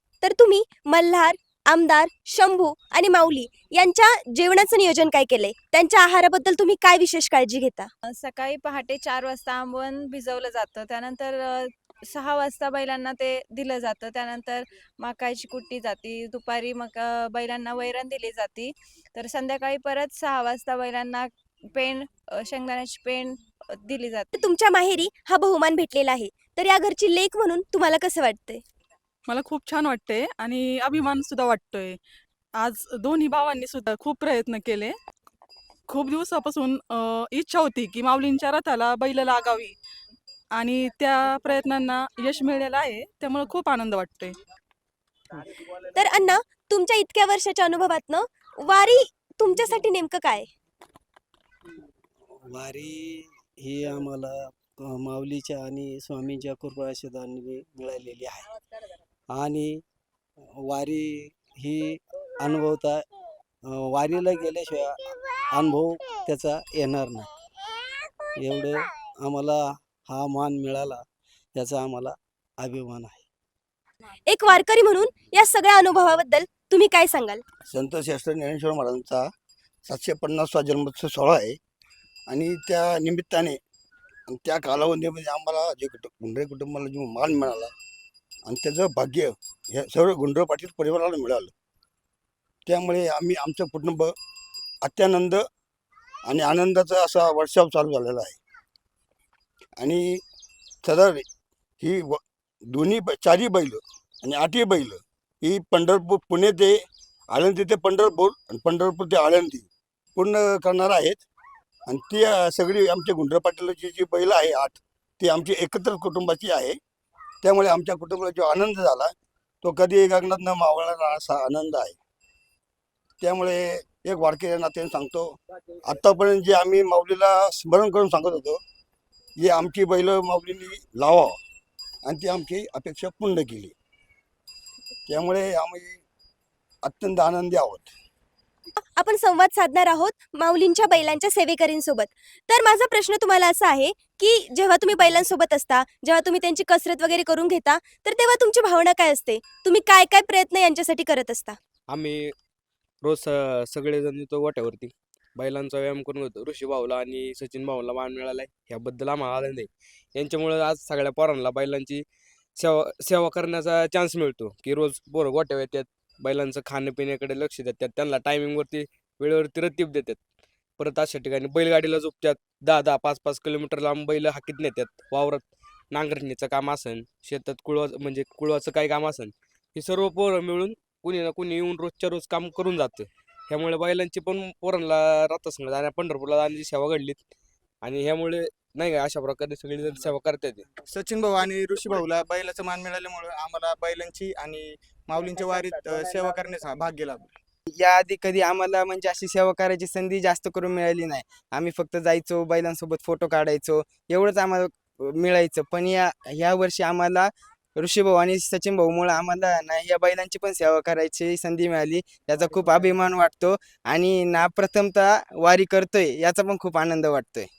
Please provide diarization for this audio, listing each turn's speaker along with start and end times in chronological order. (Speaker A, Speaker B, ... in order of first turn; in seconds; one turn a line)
Speaker A: 0.2-7.9
Speaker B: 8.1-24.3
Speaker A: 24.3-28.6
Speaker C: 29.3-32.0
Speaker C: 32.6-34.9
Speaker C: 35.9-39.7
Speaker C: 40.6-44.3
Speaker A: 45.9-50.5
Speaker D: 52.5-54.3
Speaker D: 54.9-58.5
Speaker D: 59.3-59.8
Speaker D: 60.6-63.0
Speaker D: 63.7-65.0
Speaker D: 65.5-67.3
Speaker D: 68.4-71.0
Speaker D: 71.5-73.2
Speaker A: 74.2-77.4
Speaker E: 77.7-79.2
Speaker E: 79.8-81.6
Speaker E: 82.3-83.6
Speaker E: 84.3-87.7
Speaker E: 88.5-91.5
Speaker E: 92.7-94.1
Speaker E: 94.8-95.4
Speaker E: 96.3-98.3
Speaker E: 99.8-100.2
Speaker E: 100.8-101.2
Speaker E: 101.8-106.7
Speaker E: 107.3-111.2
Speaker E: 111.9-116.8
Speaker E: 117.4-119.1
Speaker E: 119.6-122.0
Speaker E: 123.2-128.6
Speaker E: 129.4-131.3
Speaker E: 132.0-133.7
Speaker E: 135.1-136.0
Speaker E: 136.8-137.9
Speaker A: 138.9-151.6
Speaker F: 151.9-152.3
Speaker F: 153.0-162.0
Speaker F: 162.6-170.2
Speaker F: 170.8-187.2
Speaker F: 187.8-190.6
Speaker G: 190.9-197.3
Speaker H: 197.7-217.5